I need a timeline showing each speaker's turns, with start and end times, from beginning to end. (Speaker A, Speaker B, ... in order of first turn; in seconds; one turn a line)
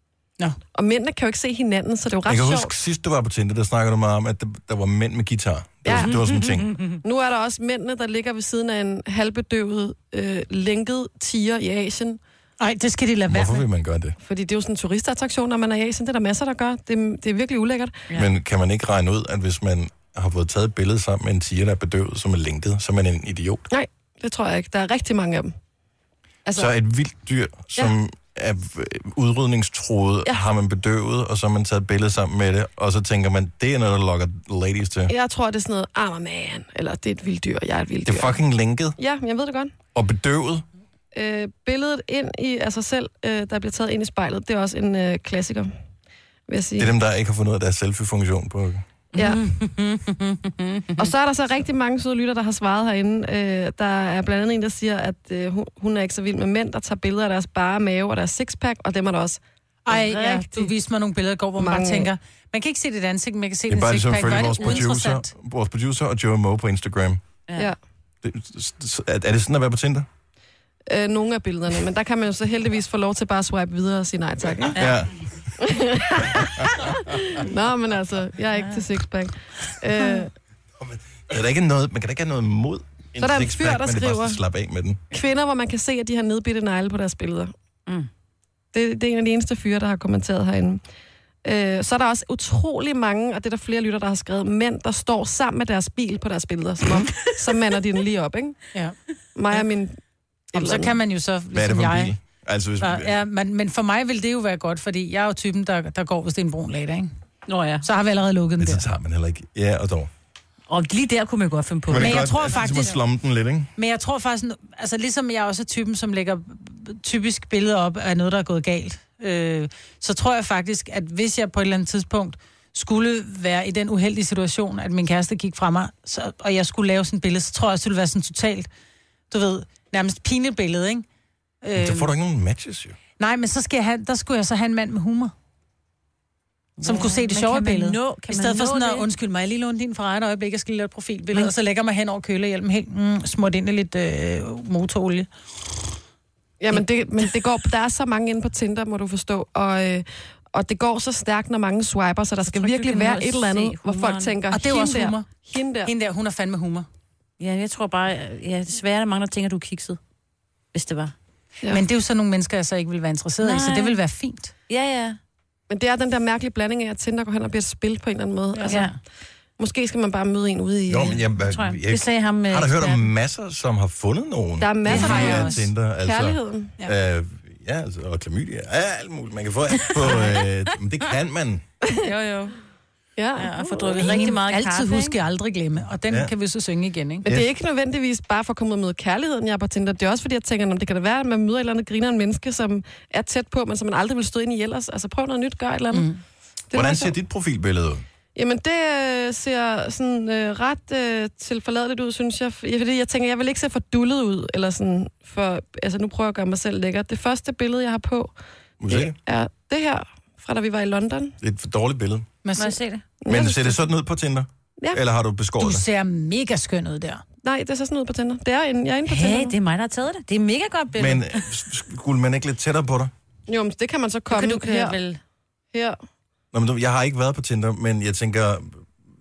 Speaker A: 0.7-2.7
Speaker B: 2.3-6.7
Speaker A: 5.9-6.2
Speaker C: 6.3-6.9
Speaker A: 7.0-12.2
Speaker D: 12.6-13.6
Speaker B: 13.3-14.2
Speaker A: 14.2-18.1
Speaker B: 18.1-23.7
Speaker A: 23.7-25.5
Speaker A: 26.4-26.7
Speaker B: 26.6-35.1
Speaker A: 35.1-38.4
Speaker B: 38.0-39.0
Speaker A: 39.0-39.7
Speaker B: 39.9-40.6
Speaker A: 41.1-45.7
Speaker A: 46.5-46.9
Speaker B: 46.8-48.9
Speaker C: 49.1-51.1
Speaker A: 49.1-49.4
Speaker A: 51.0-59.4
Speaker D: 59.9-65.3
Speaker C: 60.0-60.6
Speaker A: 61.6-62.1
Speaker B: 63.7-67.2
Speaker B: 68.2-70.1
Speaker A: 70.9-74.8
Speaker B: 74.8-75.1
Speaker A: 75.6-80.3
Speaker B: 76.3-76.7
Speaker C: 78.5-78.8
Speaker B: 80.8-85.0
Speaker A: 83.2-84.4
Speaker A: 85.1-87.5
Speaker A: 88.7-90.8
Speaker A: 91.4-98.6
Speaker A: 99.3-100.0
Speaker A: 100.5-101.0
Speaker D: 100.5-102.2
Speaker B: 101.5-103.2
Speaker D: 102.8-107.1
Speaker C: 107.5-107.8
Speaker D: 107.8-108.8
Speaker B: 108.6-110.1
Speaker C: 110.7-112.7
Speaker B: 111.9-113.7
Speaker D: 111.9-113.0
Speaker D: 113.8-128.7
Speaker D: 129.3-131.0
Speaker D: 131.6-132.1
Speaker B: 131.8-133.0
Speaker D: 133.2-135.3
Speaker C: 136.8-139.1
Speaker D: 136.8-145.3
Speaker A: 146.6-155.9
Speaker C: 152.5-154.4
Speaker D: 154.5-155.3
Speaker D: 155.8-156.9
Speaker C: 157.4-160.0
Speaker C: 160.7-161.1
Speaker D: 161.7-164.5
Speaker C: 163.4-164.0
Speaker C: 164.7-165.2
Speaker A: 165.7-168.9
Speaker D: 168.5-168.8
Speaker C: 168.7-169.0
Speaker A: 169.6-171.2
Speaker B: 170.9-181.6
Speaker C: 171.4-173.1
Speaker A: 174.6-176.8
Speaker D: 174.9-175.6
Speaker C: 182.0-182.5
Speaker A: 183.2-184.2
Speaker C: 183.4-185.2
Speaker D: 184.0-187.2
Speaker A: 187.2-196.1
Speaker D: 195.9-196.2
Speaker A: 196.7-197.1
Speaker B: 196.7-198.0
Speaker A: 198.3-208.3
Speaker B: 208.8-209.2
Speaker A: 208.9-211.4
Speaker B: 211.4-212.2
Speaker D: 212.4-212.8
Speaker C: 212.6-213.0
Speaker A: 213.2-213.8
Speaker B: 213.3-215.9
Speaker D: 215.6-217.2
Speaker A: 217.4-219.5
Speaker C: 219.1-221.5
Speaker B: 221.0-223.1
Speaker A: 223.5-225.0
Speaker C: 224.3-225.2
Speaker B: 226.5-228.8